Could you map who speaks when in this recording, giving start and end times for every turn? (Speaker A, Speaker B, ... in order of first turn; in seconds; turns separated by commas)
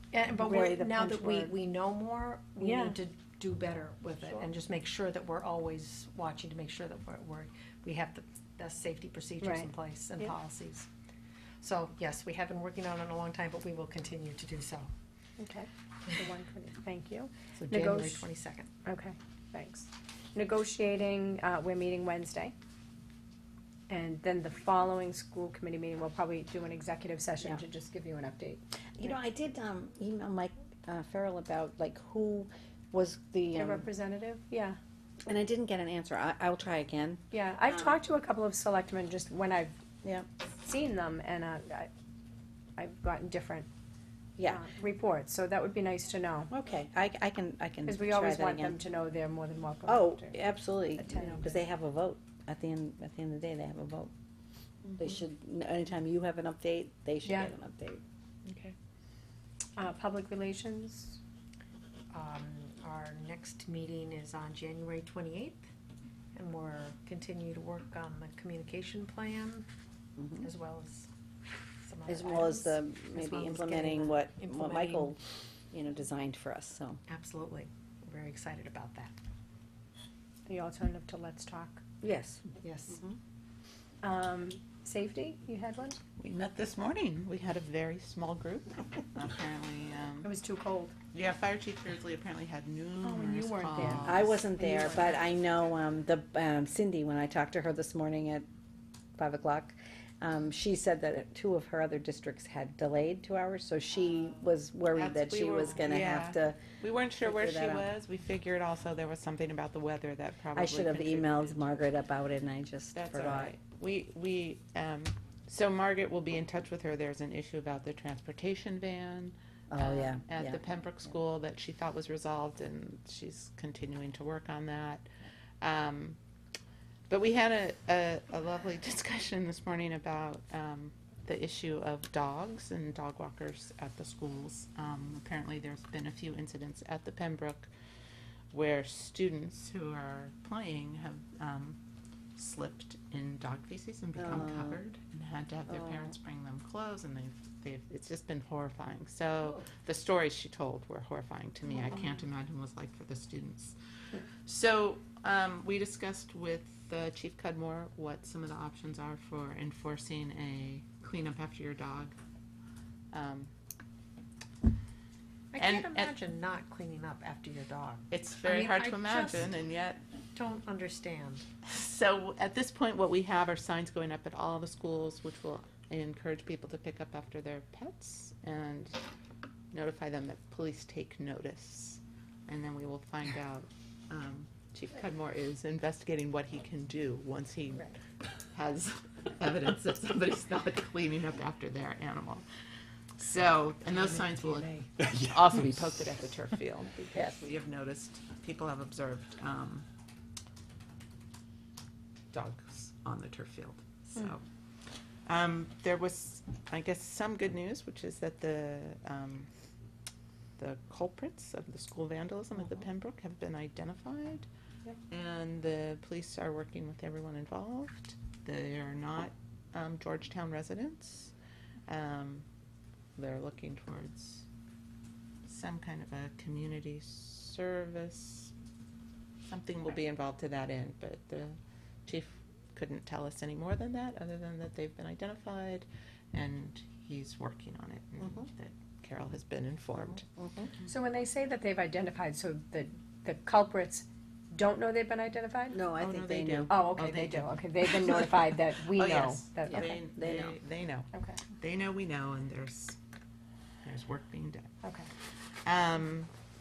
Speaker A: 0.1-10.9, Speaker B: 0.2-1.5, Speaker B: 2.6-3.0, Speaker B: 9.4-10.3, Speaker A: 11.6-14.9, Speaker B: 15.4-18.3, Speaker A: 17.6-18.7, Speaker B: 18.8-22.5, Speaker B: 23.9-28.6, Speaker C: 29.0-33.9, Speaker B: 33.5-34.8, Speaker C: 35.3-38.0, Speaker B: 37.3-39.7, Speaker B: 40.6-41.9, Speaker B: 42.8-43.7, Speaker C: 44.4-44.7, Speaker B: 44.5-46.5, Speaker C: 46.5-48.8, Speaker B: 47.9-50.3, Speaker C: 49.9-54.1, Speaker B: 51.0-51.5, Speaker C: 55.0-58.0, Speaker B: 57.2-57.5, Speaker D: 58.5-58.7, Speaker B: 59.8-61.2, Speaker A: 62.1-65.6, Speaker A: 66.3-69.7, Speaker A: 70.4-71.1, Speaker A: 71.8-75.1, Speaker C: 72.0-75.2, Speaker C: 75.7-77.0, Speaker A: 77.1-79.1, Speaker B: 80.5-81.8, Speaker C: 82.0-83.2, Speaker A: 82.6-83.0, Speaker B: 84.0-86.0, Speaker D: 86.2-90.3, Speaker B: 90.2-90.9, Speaker D: 91.1-94.5, Speaker B: 93.0-95.2, Speaker C: 94.0-98.5, Speaker C: 99.2-106.6, Speaker D: 104.9-111.8, Speaker C: 107.2-107.9, Speaker C: 110.5-113.5, Speaker D: 112.9-125.0, Speaker C: 119.7-120.6, Speaker D: 125.6-126.2, Speaker D: 127.1-137.7, Speaker D: 138.5-141.8, Speaker D: 142.3-153.7, Speaker C: 144.2-144.8, Speaker C: 145.7-146.0, Speaker D: 154.4-162.1, Speaker D: 163.1-163.5, Speaker A: 165.5-169.5, Speaker D: 165.6-166.1, Speaker D: 168.1-170.0, Speaker A: 170.3-171.4, Speaker D: 171.6-179.0, Speaker D: 179.7-187.9, Speaker D: 188.5-192.4, Speaker D: 193.2-199.8, Speaker C: 193.9-194.8, Speaker C: 197.1-197.5, Speaker D: 202.3-204.4, Speaker D: 205.2-209.5, Speaker D: 210.6-214.5, Speaker D: 215.1-221.3, Speaker D: 221.9-222.4, Speaker D: 223.2-224.4, Speaker D: 225.4-228.5, Speaker D: 229.4-240.2, Speaker C: 238.2-238.5, Speaker C: 240.2-240.7, Speaker B: 240.9-245.8, Speaker C: 245.7-246.8, Speaker D: 246.0-253.0, Speaker B: 246.7-249.9, Speaker C: 249.7-250.6, Speaker B: 251.1-251.4, Speaker D: 253.8-254.7, Speaker B: 254.8-255.1, Speaker D: 255.6-256.3